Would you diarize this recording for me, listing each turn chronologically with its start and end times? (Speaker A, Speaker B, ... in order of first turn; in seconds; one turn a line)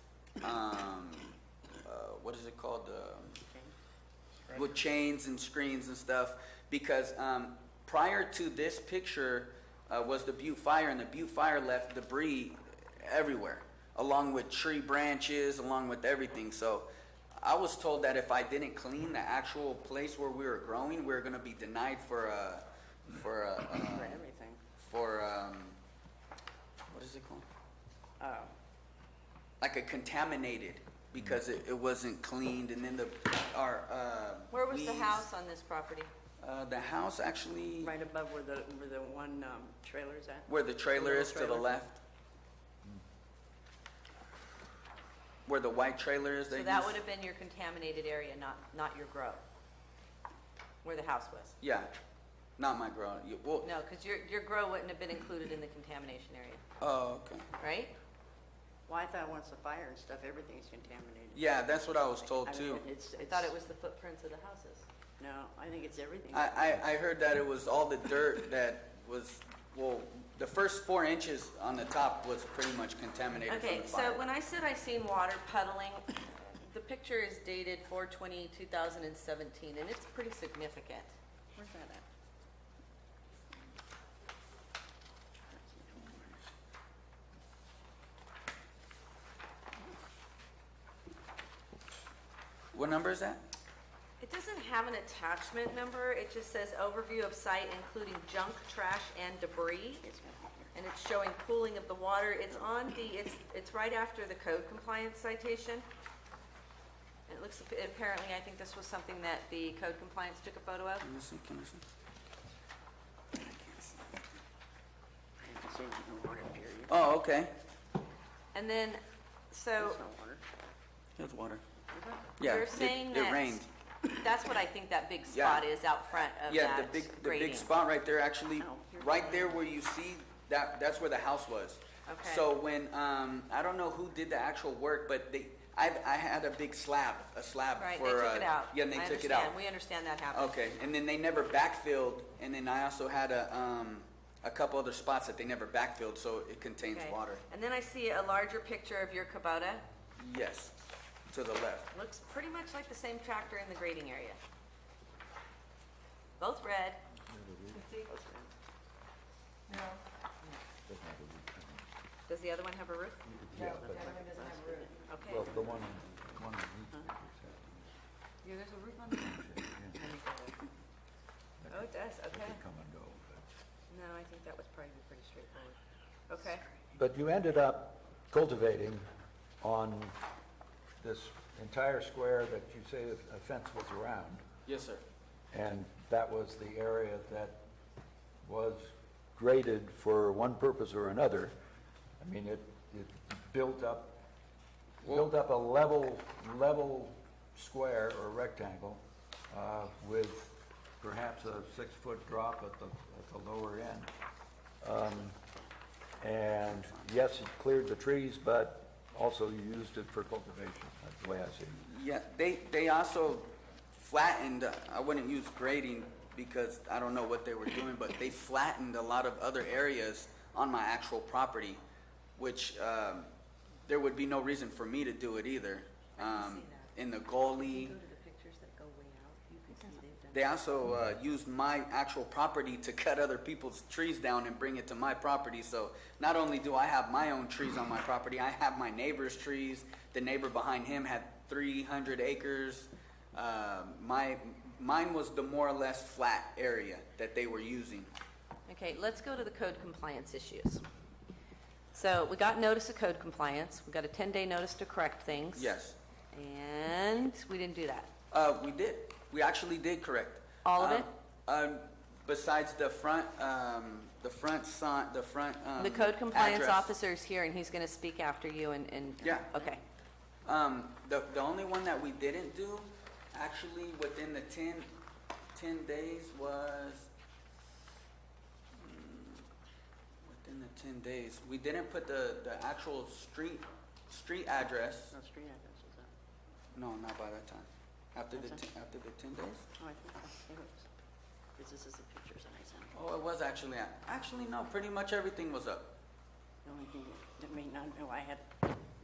Speaker A: 0.4-3.4
Speaker A: 4.5-24.2
Speaker B: 23.8-24.6
Speaker A: 24.8-25.8
Speaker A: 26.9-27.4
Speaker B: 28.2-28.5
Speaker A: 29.6-35.2
Speaker C: 34.5-36.1
Speaker A: 36.4-37.9
Speaker B: 37.8-41.7
Speaker A: 40.5-42.0
Speaker A: 45.5-46.9
Speaker C: 46.5-49.4
Speaker C: 50.8-51.5
Speaker A: 51.6-51.9
Speaker A: 52.6-53.7
Speaker C: 53.6-56.6
Speaker A: 56.8-57.5
Speaker C: 57.6-57.9
Speaker B: 58.9-63.5
Speaker A: 61.3-62.8
Speaker C: 63.2-64.8
Speaker B: 65.2-67.0
Speaker A: 66.3-74.2
Speaker C: 73.5-81.1
Speaker B: 81.5-82.0
Speaker B: 85.5-86.5
Speaker A: 92.7-93.4
Speaker C: 94.2-100.0
Speaker B: 100.0-100.7
Speaker C: 100.7-105.8
Speaker C: 107.3-111.0
Speaker A: 111.0-111.8
Speaker A: 113.4-114.0
Speaker B: 115.4-117.0
Speaker A: 116.9-117.5
Speaker C: 118.5-120.0
Speaker B: 119.8-120.4
Speaker A: 121.2-121.6
Speaker B: 121.9-122.3
Speaker A: 122.4-123.7
Speaker C: 122.4-127.7
Speaker A: 125.3-125.7
Speaker A: 126.4-139.6
Speaker B: 128.6-129.6
Speaker C: 132.1-132.4
Speaker C: 137.8-140.5
Speaker A: 140.3-147.4
Speaker C: 146.9-149.8
Speaker A: 150.2-150.7
Speaker A: 151.3-151.9
Speaker C: 151.9-154.4
Speaker C: 156.4-157.0
Speaker D: 157.2-157.9
Speaker C: 157.7-158.1
Speaker B: 158.1-158.5
Speaker C: 159.7-160.6
Speaker D: 160.9-161.8
Speaker C: 162.3-165.7
Speaker D: 163.2-164.1
Speaker B: 163.5-165.8
Speaker D: 165.2-167.9
Speaker C: 168.4-170.6
Speaker D: 169.1-170.0
Speaker D: 171.6-173.4
Speaker C: 171.7-172.6
Speaker C: 173.9-176.6
Speaker D: 176.9-179.0
Speaker D: 179.6-180.2
Speaker D: 181.0-184.4
Speaker A: 184.7-185.0
Speaker D: 185.5-187.6
Speaker D: 188.4-191.5
Speaker D: 192.2-194.2
Speaker D: 195.0-204.1
Speaker D: 204.8-205.4
Speaker D: 206.2-211.8
Speaker A: 211.8-221.8
Speaker A: 222.4-223.3
Speaker A: 223.8-227.9
Speaker C: 226.2-226.9
Speaker C: 227.6-230.4
Speaker A: 230.3-248.1
Speaker C: 248.7-250.8
Speaker C: 251.9-255.7
Speaker A: 255.5-256.0
Speaker C: 256.3-258.1
Speaker A: 258.3-266.9
Speaker C: 260.6-261.1
Speaker C: 265.8-269.8
Speaker A: 269.2-269.5
Speaker A: 270.4-274.9
Speaker A: 275.5-277.1
Speaker A: 278.8-279.4
Speaker A: 280.2-285.1
Speaker B: 285.1-286.1
Speaker A: 286.7-289.7
Speaker B: 288.3-288.6
Speaker B: 289.8-290.9
Speaker B: 291.6-292.9
Speaker A: 292.9-295.9
Speaker B: 296.6-298.6